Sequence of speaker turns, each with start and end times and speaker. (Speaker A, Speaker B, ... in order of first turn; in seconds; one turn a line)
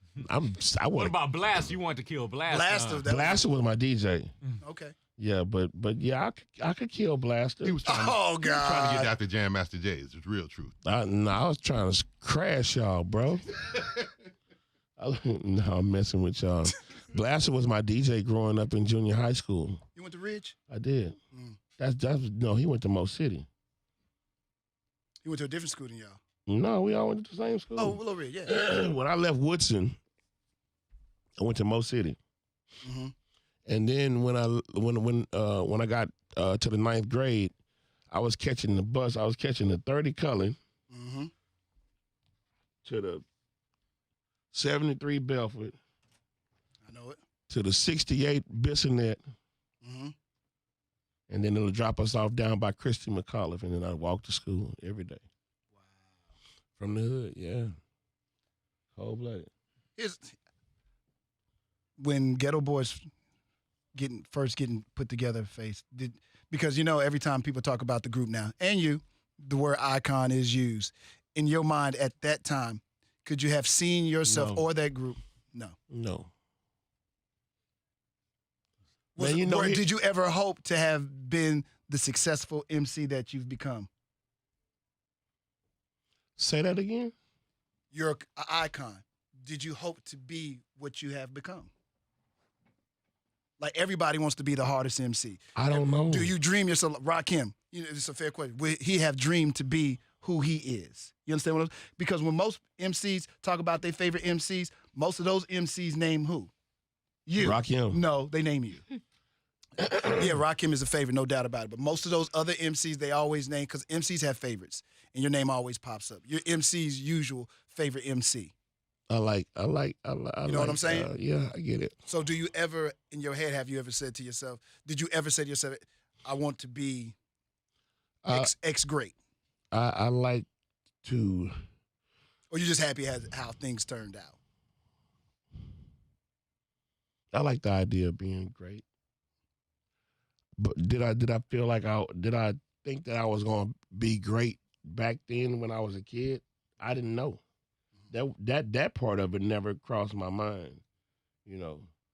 Speaker A: 0.2-1.8
Speaker B: 1.0-3.0
Speaker C: 2.5-3.5
Speaker A: 3.1-4.3
Speaker C: 4.6-5.0
Speaker A: 5.2-7.8
Speaker D: 7.6-10.8
Speaker C: 7.8-9.1
Speaker A: 10.8-13.6
Speaker A: 15.0-19.8
Speaker C: 20.0-20.6
Speaker A: 20.7-21.2
Speaker C: 21.3-21.6
Speaker A: 21.8-23.5
Speaker C: 25.2-26.2
Speaker A: 26.5-30.0
Speaker C: 27.8-28.6
Speaker A: 31.4-32.2
Speaker C: 32.8-33.1
Speaker A: 33.7-37.5
Speaker A: 38.1-40.6
Speaker C: 40.9-41.3
Speaker A: 42.8-43.2
Speaker A: 44.5-45.8
Speaker C: 46.9-47.2
Speaker A: 47.5-49.2
Speaker C: 49.8-50.1
Speaker A: 51.3-55.2
Speaker C: 55.7-56.2
Speaker A: 56.8-57.7
Speaker A: 59.0-59.5
Speaker C: 60.0-60.3
Speaker C: 62.0-63.0
Speaker C: 64.0-75.8
Speaker A: 74.3-74.7
Speaker A: 75.9-76.3
Speaker C: 79.2-83.9
Speaker A: 79.2-79.8
Speaker A: 86.4-87.1
Speaker C: 87.9-91.7
Speaker C: 93.6-106.5
Speaker A: 95.6-96.3
Speaker C: 107.3-108.9
Speaker A: 107.4-108.0
Speaker C: 110.0-118.5
Speaker A: 119.1-122.0
Speaker C: 120.5-121.1
Speaker C: 122.1-127.2
Speaker A: 128.2-128.5
Speaker C: 128.3-129.2
Speaker A: 129.7-130.5
Speaker A: 131.0-131.5
Speaker C: 132.5-134.4
Speaker A: 137.3-138.8
Speaker A: 140.6-147.4
Speaker A: 148.1-150.8
Speaker A: 151.5-151.9